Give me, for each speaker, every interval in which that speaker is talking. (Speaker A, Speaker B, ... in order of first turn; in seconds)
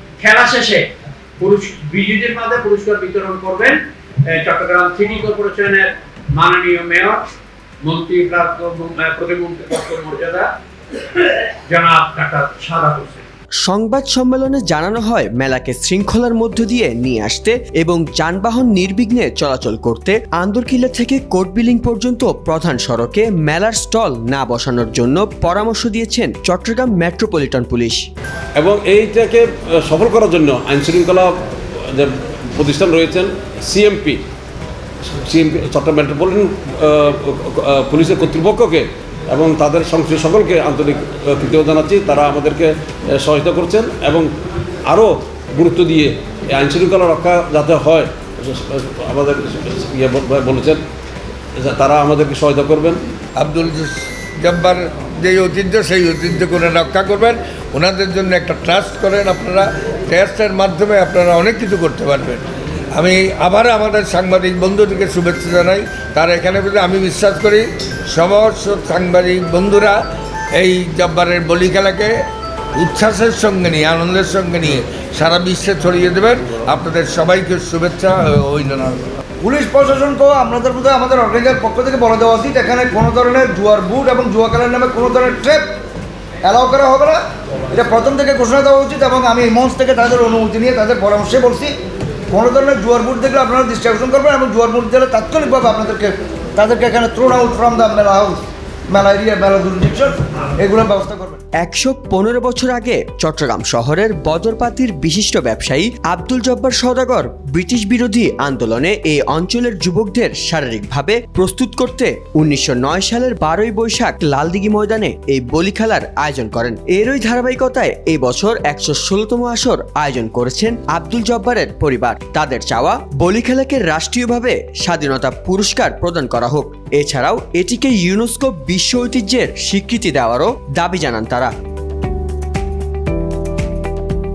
Speaker A: 0.2-0.9, 1.4-7.2, 7.8-10.5, 11.1-13.3
Speaker B: 13.6-28.0, 101.6-131.5
Speaker C: 28.6-34.2, 35.1-44.3, 44.9-50.8, 51.6-53.0
Speaker D: 53.4-62.4, 63.0-70.0, 70.6-72.2, 72.8-79.0
Speaker E: 79.4-85.7, 86.4-91.7, 92.3-101.4